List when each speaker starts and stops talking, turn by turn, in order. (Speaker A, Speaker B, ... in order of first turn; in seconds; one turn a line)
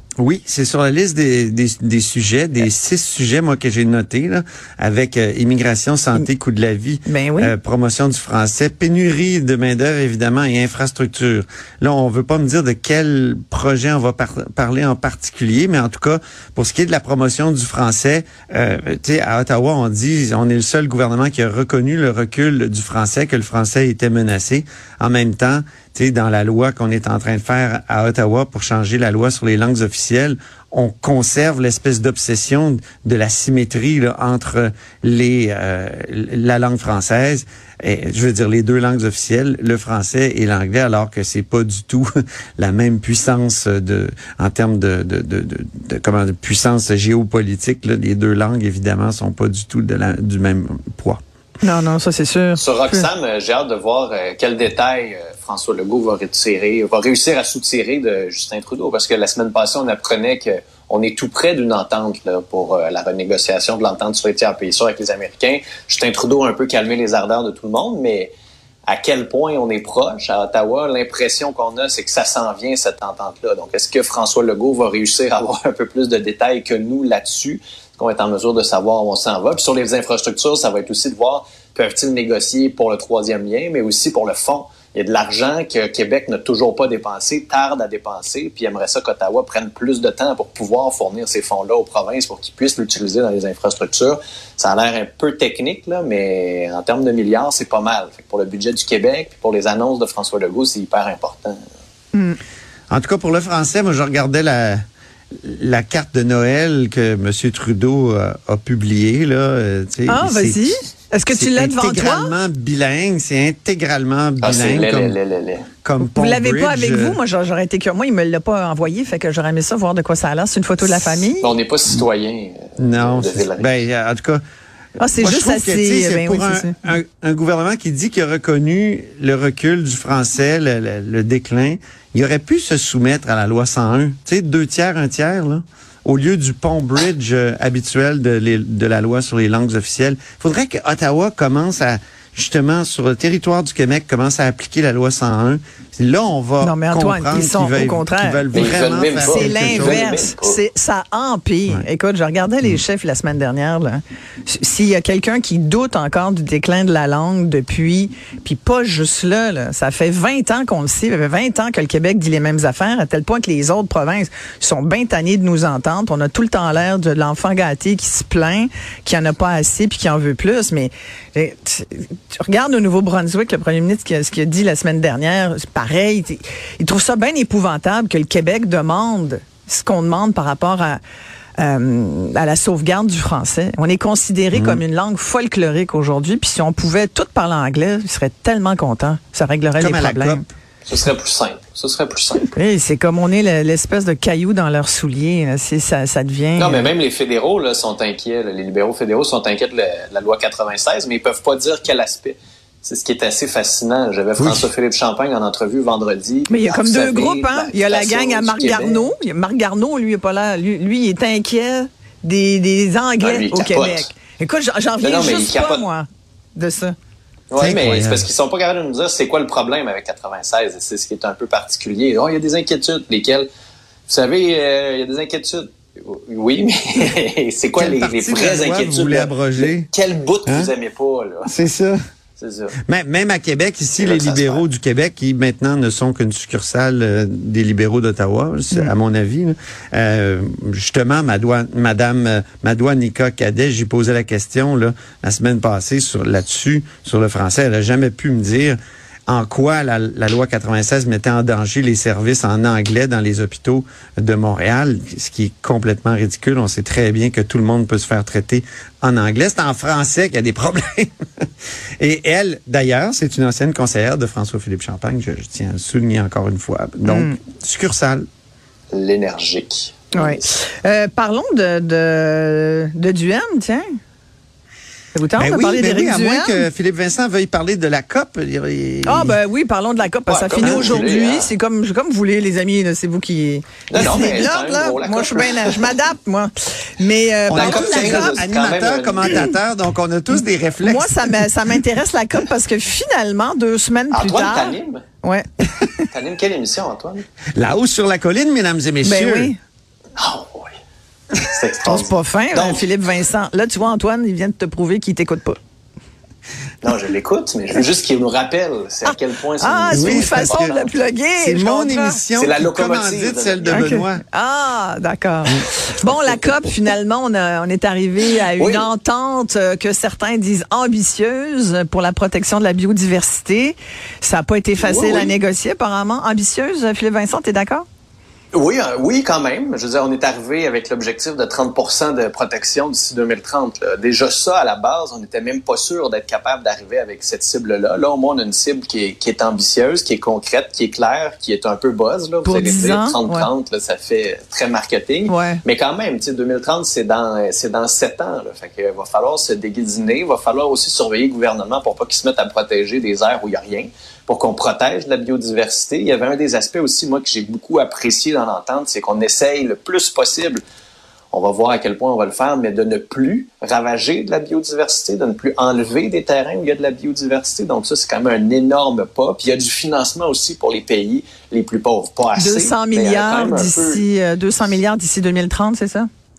Speaker A: 0.2-51.2
Speaker B: 7.1-7.5
Speaker B: 51.6-53.1
Speaker C: 52.6-68.3
Speaker C: 68.9-101.6
Speaker A: 102.9-104.8
Speaker A: 105.3-110.7
Speaker B: 110.1-112.3
Speaker A: 111.3-115.2
Speaker C: 114.4-115.7
Speaker A: 115.8-117.2
Speaker B: 116.0-121.5
Speaker C: 121.4-123.8
Speaker A: 122.8-124.4
Speaker B: 125.0-126.8
Speaker A: 125.0-150.0
Speaker B: 146.6-148.7
Speaker C: 148.5-150.6
Speaker B: 149.2-181.0
Speaker B: 181.6-190.4
Speaker A: 184.5-184.8
Speaker A: 189.8-190.5
Speaker C: 190.9-192.5
Speaker B: 192.6-196.9
Speaker C: 196.6-209.1
Speaker A: 204.4-204.7
Speaker B: 206.5-216.9
Speaker C: 213.2-214.1
Speaker C: 215.0-215.8
Speaker C: 217.5-223.5
Speaker A: 217.6-218.3
Speaker C: 224.1-231.5
Speaker A: 227.8-229.9
Speaker A: 230.4-230.7
Speaker A: 231.4-232.0
Speaker C: 232.4-232.8
Speaker A: 232.8-261.5
Speaker C: 234.0-234.7
Speaker A: 262.0-268.3
Speaker B: 267.1-267.4
Speaker C: 268.9-270.5
Speaker B: 270.1-273.9
Speaker B: 275.1-276.7
Speaker A: 275.4-279.4
Speaker B: 279.0-288.4
Speaker C: 280.3-281.5
Speaker A: 280.6-281.0
Speaker C: 283.9-286.0
Speaker A: 284.0-284.3
Speaker A: 287.5-291.4
Speaker C: 287.5-289.5
Speaker B: 290.8-296.1
Speaker C: 294.1-295.0
Speaker C: 296.1-297.2
Speaker A: 297.6-299.5
Speaker B: 299.0-299.6
Speaker C: 300.2-300.7
Speaker C: 301.5-302.9
Speaker B: 301.9-305.6
Speaker C: 306.8-311.0
Speaker B: 309.0-312.2
Speaker A: 309.9-310.7
Speaker A: 311.4-314.2
Speaker C: 312.4-313.9
Speaker B: 313.7-327.9
Speaker C: 316.1-316.5
Speaker C: 318.6-318.9
Speaker C: 324.8-325.3
Speaker C: 328.5-360.6
Speaker B: 342.4-343.5
Speaker B: 345.3-345.6
Speaker C: 361.3-374.0
Speaker B: 372.4-376.1